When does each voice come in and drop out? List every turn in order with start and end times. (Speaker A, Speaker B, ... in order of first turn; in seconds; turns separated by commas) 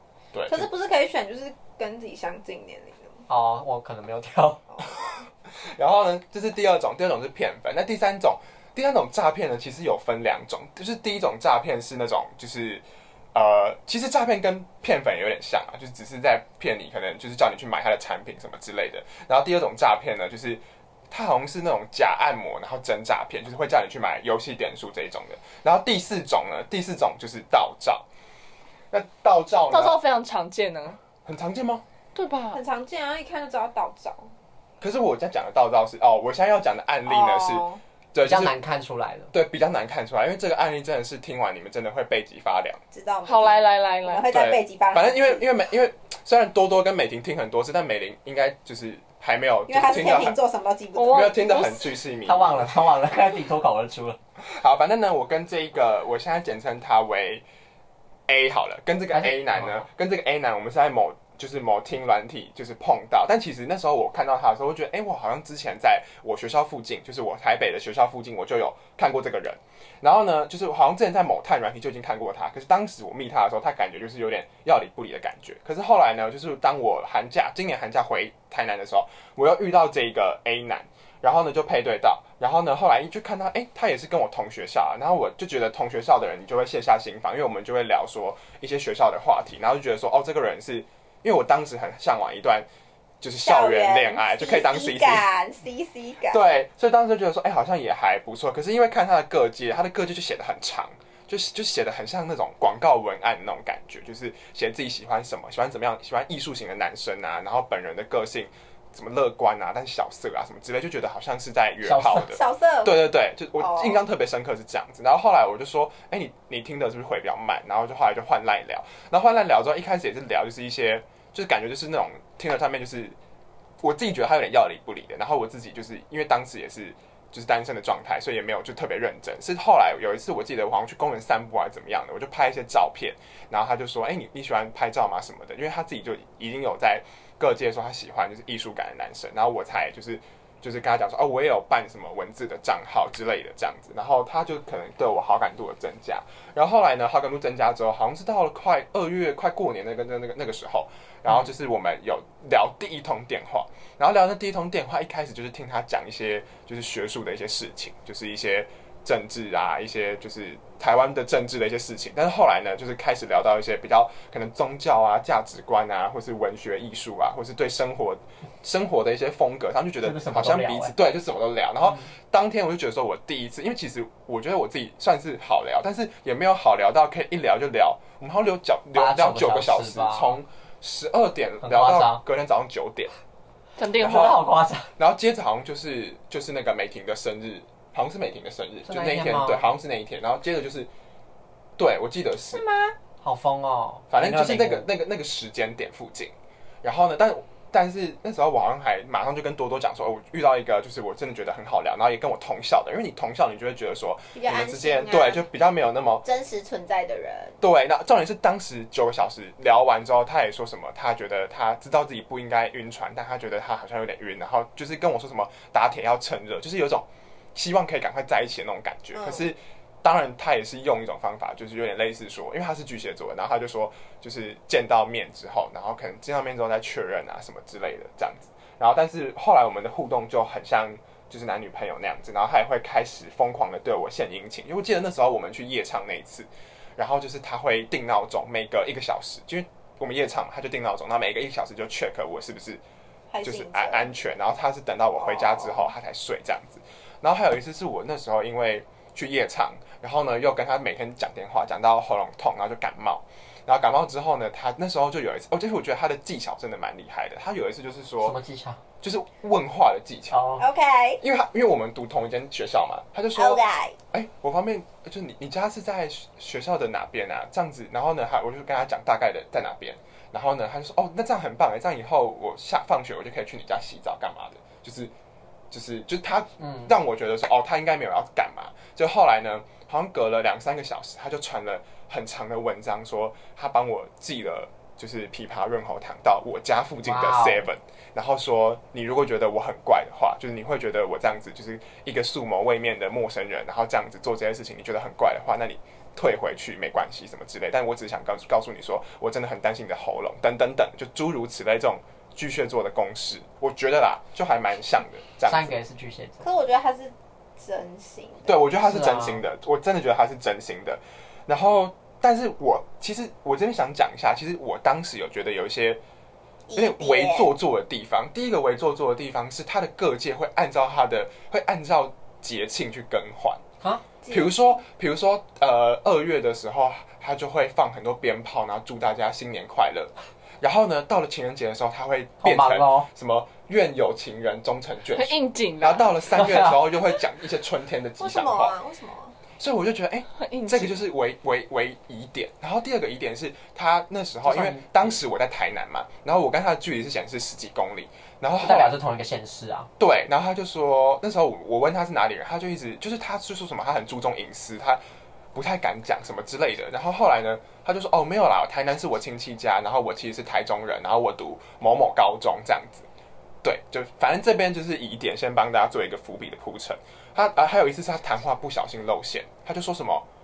Speaker A: 0.3-0.7, Speaker B: 0.5-3.2, Speaker C: 3.3-4.6, Speaker A: 5.0-28.1, Speaker A: 28.9-30.0, Speaker D: 29.7-31.0, Speaker A: 31.2-31.8, Speaker D: 32.1-32.6, Speaker B: 32.5-34.3, Speaker A: 34.8-38.5, Speaker B: 37.1-37.8, Speaker C: 38.2-39.3, Speaker A: 39.3-42.8, Speaker B: 42.9-45.4, Speaker D: 43.2-44.4, Speaker A: 44.3-50.4, Speaker B: 49.7-51.6, Speaker D: 51.0-51.9, Speaker A: 51.1-52.7, Speaker C: 52.3-54.2, Speaker A: 54.4-57.5, Speaker A: 58.3-92.7, Speaker C: 59.1-59.8, Speaker A: 93.2-95.3, Speaker B: 93.4-96.4, Speaker A: 96.2-123.2, Speaker C: 111.8-112.3, Speaker B: 112.2-113.0, Speaker B: 113.6-114.0, Speaker A: 123.8-183.1, Speaker C: 170.0-170.9, Speaker C: 178.9-180.4, Speaker C: 181.6-182.2, Speaker D: 183.8-184.4, Speaker C: 183.9-184.9, Speaker A: 184.0-184.4, Speaker A: 185.0-190.9, Speaker C: 188.9-189.7, Speaker A: 191.8-192.6, Speaker B: 192.5-193.0, Speaker C: 193.2-194.9, Speaker A: 194.1-206.2, Speaker B: 204.3-205.4, Speaker B: 206.2-207.6, Speaker A: 207.6-242.8, Speaker B: 219.2-219.5, Speaker B: 243.3-244.1, Speaker A: 243.4-258.4, Speaker B: 245.2-245.9, Speaker C: 258.2-258.8, Speaker A: 259.0-260.4, Speaker C: 260.3-260.7, Speaker B: 260.6-261.2, Speaker A: 261.2-263.6, Speaker B: 263.4-264.0, Speaker A: 264.1-275.1, Speaker A: 275.7-305.8, Speaker C: 276.6-276.9, Speaker C: 287.0-287.7, Speaker C: 305.4-306.5, Speaker B: 306.4-308.6, Speaker A: 308.4-316.0, Speaker C: 308.8-309.4, Speaker B: 316.7-317.5, Speaker A: 316.8-323.6, Speaker B: 324.2-324.8, Speaker A: 324.3-338.8, Speaker C: 332.4-333.1, Speaker D: 335.1-336.4, Speaker C: 336.4-336.8, Speaker B: 338.2-339.4, Speaker A: 339.6-348.9, Speaker D: 340.4-341.0, Speaker C: 344.4-345.1, Speaker C: 348.6-349.9, Speaker A: 350.0-355.0, Speaker A: 355.5-363.1, Speaker A: 363.6-370.2